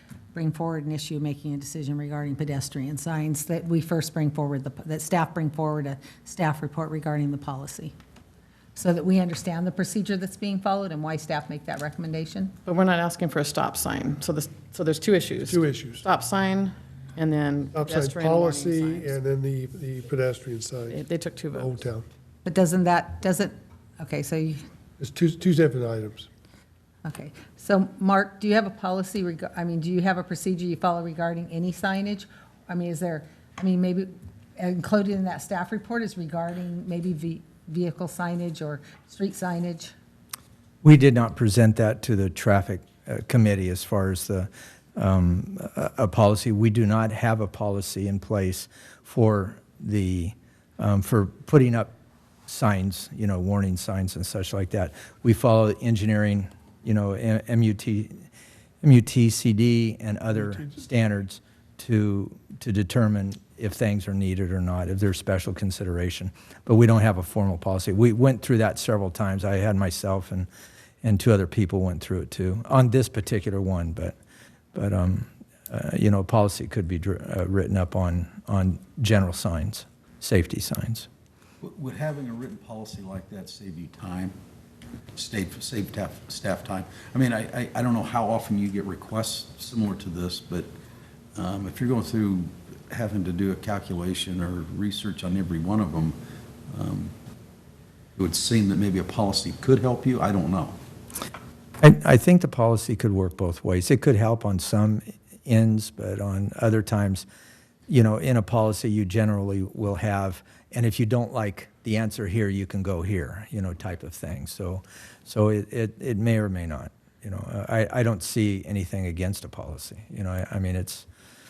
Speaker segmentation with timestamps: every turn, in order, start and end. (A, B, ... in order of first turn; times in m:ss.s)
0:00.3-0:07.9 A
0:08.8-0:12.5 A
0:12.6-0:19.1 B
0:15.4-0:16.0 C
0:17.7-0:22.1 C
0:20.9-0:21.7 B
0:22.4-0:24.6 A
0:25.0-0:26.3 C
0:27.0-0:39.9 A
0:40.8-0:51.9 D
0:52.5-0:58.2 D
0:58.8-1:10.5 D
1:11.0-1:14.2 D
1:14.7-1:21.1 D
1:21.6-1:24.4 E
1:25.1-1:30.7 E
1:31.4-1:36.2 E
1:36.7-1:37.1 E
1:38.2-1:40.8 E
1:41.8-1:47.2 D
1:47.9-2:01.1 D